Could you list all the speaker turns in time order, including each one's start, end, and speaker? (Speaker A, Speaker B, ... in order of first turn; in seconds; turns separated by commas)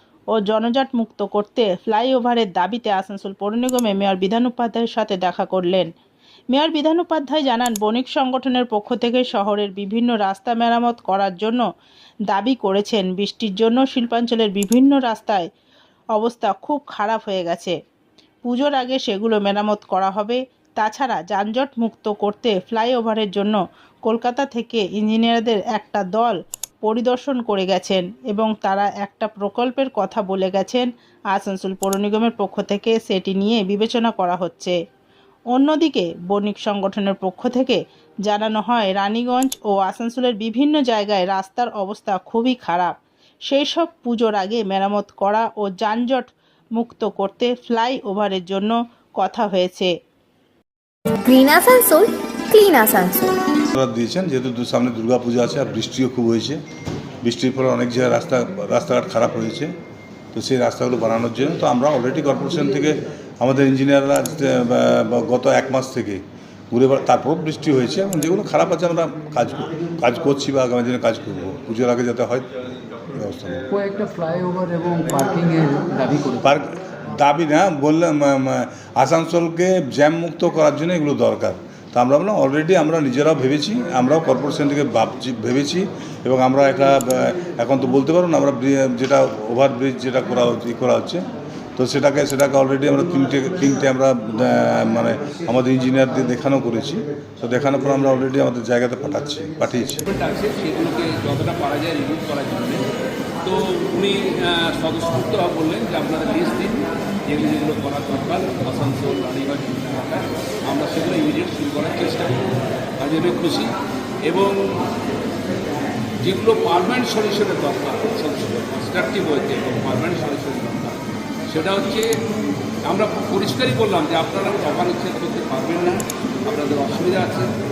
Speaker A: 0.3-5.9, Speaker A: 6.5-11.6, Speaker A: 12.3-15.5, Speaker A: 16.2-17.8, Speaker A: 18.5-34.8, Speaker A: 35.5-42.9, Speaker A: 43.5-46.3, Speaker A: 46.8-49.9, Speaker B: 51.3-53.3, Speaker C: 53.7-56.6, Speaker C: 57.2-59.7, Speaker C: 60.3-72.5, Speaker C: 73.1-73.6, Speaker D: 73.7-76.5, Speaker C: 76.4-91.2, Speaker C: 91.8-100.0, Speaker E: 100.1-102.8, Speaker E: 103.4-113.7, Speaker E: 114.3-114.8, Speaker E: 116.2-122.1, Speaker E: 122.9-127.5